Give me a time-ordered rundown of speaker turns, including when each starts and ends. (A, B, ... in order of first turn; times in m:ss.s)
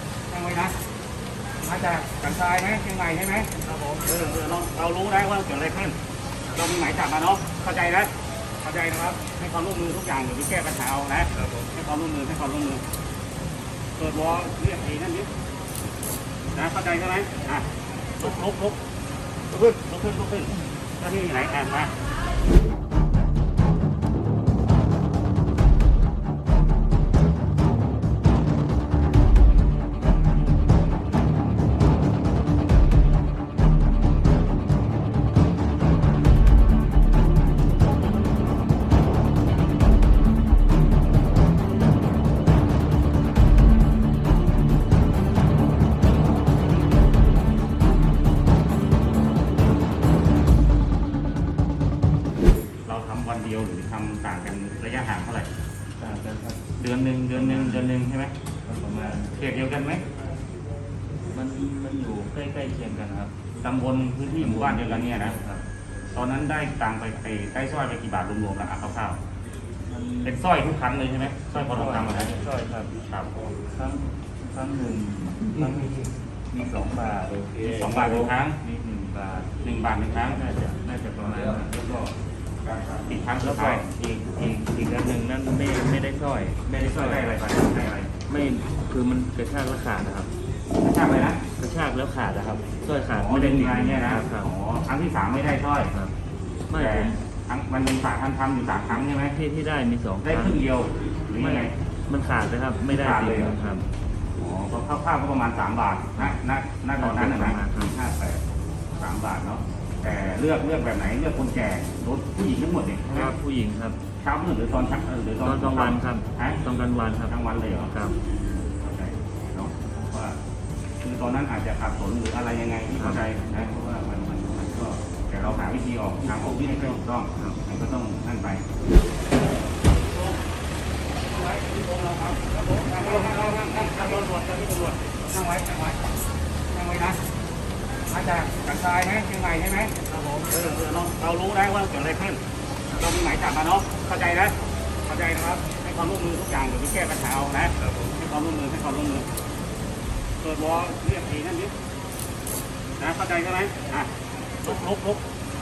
0:00.3-0:00.8 A
0:01.6-0:06.0 A
0:06.5-0:12.8 A
0:14.0-0:15.3 A
0:16.5-0:17.7 A
0:18.2-0:18.8 A
0:19.5-0:21.9 A
0:52.9-0:55.5 A
0:56.0-0:56.7 B
0:56.8-0:58.4 A
0:57.3-0:57.9 B
0:58.6-0:59.3 B
0:59.3-1:00.0 A
1:01.3-1:03.4 B
1:03.6-1:05.4 A
1:04.4-1:05.6 B
1:06.1-1:09.2 A
1:09.9-1:10.4 B
1:10.2-1:12.3 A
1:11.5-1:13.0 B
1:13.0-1:13.5 A
1:13.7-1:19.5 B
1:17.6-1:18.6 A
1:19.6-1:20.4 A
1:20.2-1:22.1 B
1:22.9-1:23.9 A
1:23.4-1:27.4 B
1:26.7-1:28.1 A
1:28.3-1:30.3 B
1:30.8-1:31.4 A
1:31.6-1:34.5 B
1:33.1-1:35.9 A
1:36.7-1:37.2 B
1:36.7-1:39.3 A
1:39.2-1:40.6 B
1:40.2-1:41.7 A
1:41.4-1:43.9 B
1:42.9-1:43.6 A
1:44.4-1:48.4 A
1:47.0-1:48.0 B
1:48.9-1:53.4 A
1:53.1-1:54.0 B
1:54.2-1:56.6 A
1:55.4-1:58.2 B
1:57.3-1:57.9 A
1:58.6-2:00.4 A
2:01.0-2:08.6 A
2:03.0-2:03.2 B
2:11.4-2:16.0 A
2:16.7-2:17.2 A
2:18.1-2:29.3 A
2:30.4-2:31.7 A
2:33.0-2:35.3 A